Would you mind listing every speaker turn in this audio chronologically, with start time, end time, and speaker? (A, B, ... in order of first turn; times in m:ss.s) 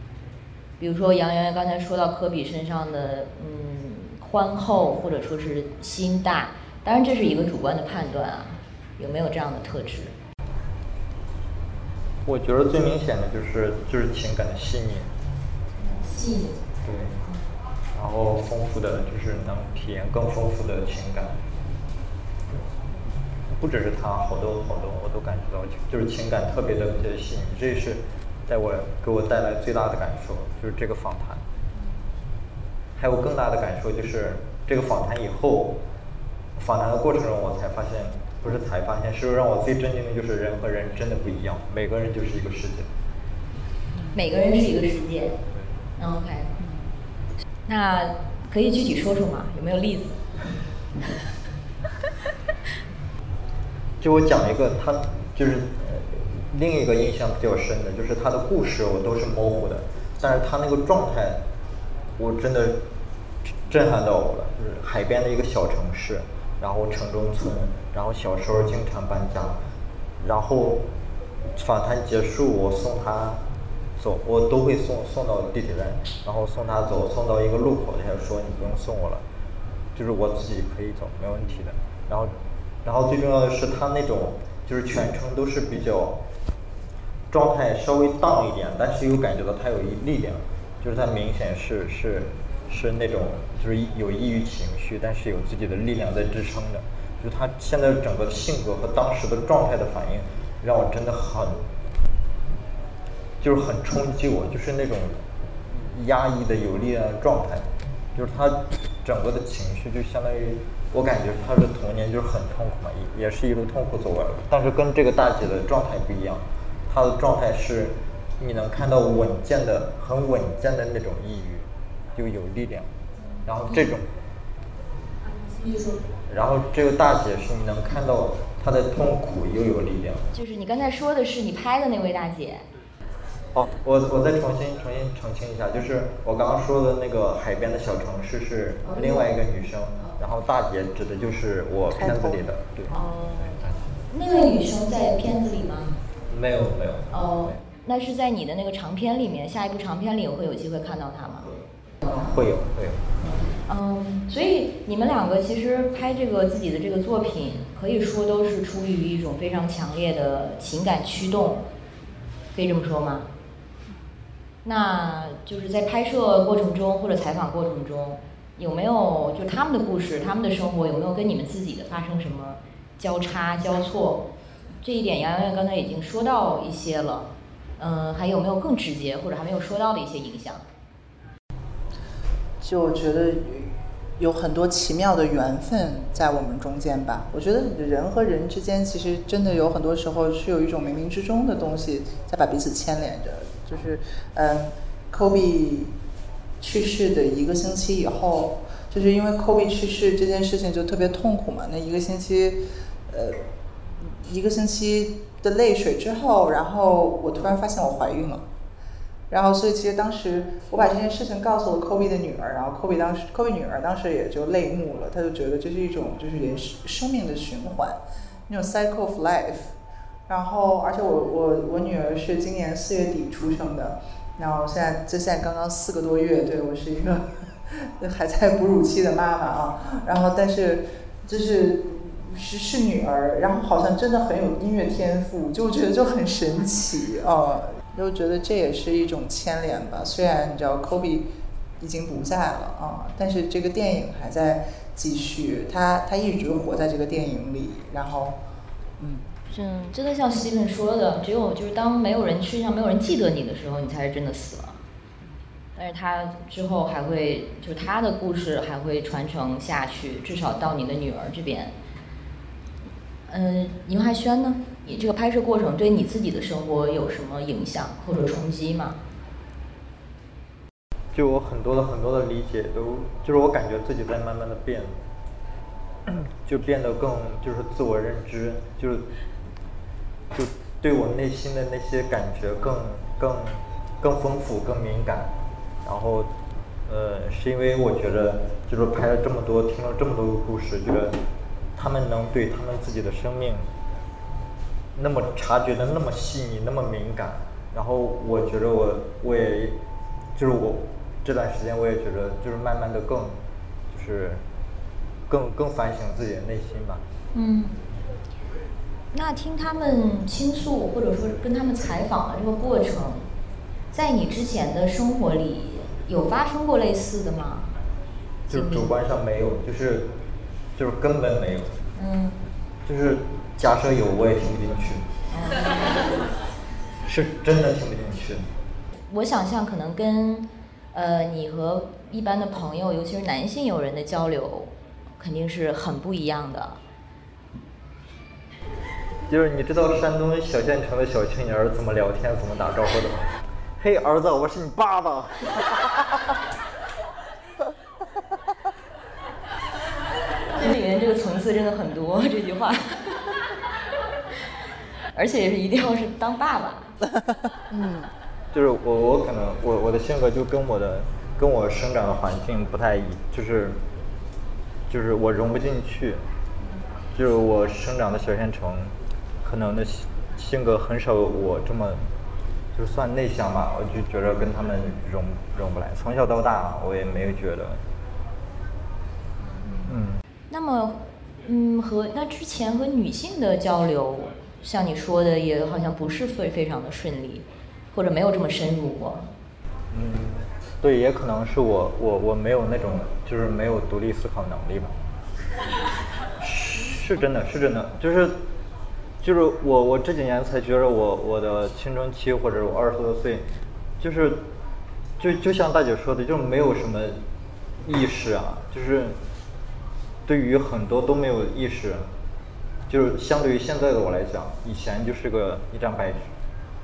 0:00.8-0:10.1 A
0:12.2-0:15.1 B
0:16.0-0:16.5 A
0:16.8-0:17.2 B
0:17.9-0:21.4 B
0:23.5-0:31.4 B
0:33.0-0:35.8 B
0:36.6-0:42.9 B
0:44.1-0:45.4 A
0:46.0-0:46.5 A
0:46.6-0:46.8 C
0:47.7-0:50.3 A
0:54.0-1:01.4 B
1:02.2-1:02.8 B
1:03.6-1:09.6 B
1:10.2-1:10.8 B
1:11.5-1:13.4 B
1:14.0-1:19.2 B
1:19.9-1:26.2 B
1:27.3-1:41.6 B
1:43.4-2:02.9 B
2:03.4-2:04.0 B
2:06.3-2:10.3 B
2:10.3-2:12.6 A
2:13.5-2:23.9 B
2:21.9-2:22.4 C
2:22.9-2:23.5 A
2:24.1-2:26.0 A
2:26.3-2:27.6 B
2:27.1-2:31.5 A
2:32.0-2:33.1 B
2:33.6-2:41.6 A
2:42.5-2:43.3 A
2:44.6-2:54.2 A
2:54.8-3:00.6 A
3:02.6-3:15.9 C
3:16.6-3:23.4 C
3:24.0-3:28.4 C
3:29.3-3:39.7 C
3:40.3-4:01.3 C
4:01.8-4:08.4 C
4:09.0-4:09.3 C
4:09.5-4:14.8 A
4:15.8-4:21.7 A
4:23.3-4:29.0 A
4:31.1-4:34.9 B
4:36.0-4:39.1 B
4:40.3-4:45.3 B
4:45.8-4:46.3 B
4:46.8-4:51.2 B
4:51.8-4:53.7 B
4:54.9-4:59.8 B
5:00.3-5:03.3 B
5:03.9-5:04.4 B
5:05.3-5:07.0 B
5:07.3-5:07.8 A
5:09.1-5:13.3 A
5:13.9-5:17.7 A
5:18.5-5:20.1 B
5:18.5-5:18.9 A
5:20.8-5:21.8 B
5:22.0-5:22.4 A
5:22.8-5:25.1 B
5:25.3-5:26.1 A
5:27.0-5:28.4 B
5:29.1-5:36.8 A
5:39.3-5:46.0 B
5:50.5-5:53.3 A
5:55.1-5:56.9 A
5:57.7-5:58.1 C
5:58.5-6:03.8 B
6:04.9-6:06.2 B
6:07.1-6:12.0 B
6:12.7-6:17.8 B
6:19.8-6:20.2 B
6:20.5-6:29.3 A
6:29.9-6:35.0 B
6:36.4-6:38.4 B
6:39.2-6:43.4 B
6:44.0-6:44.4 B
6:45.2-6:47.2 B
6:47.8-6:49.2 B
6:50.2-6:52.0 B
6:52.9-6:56.3 B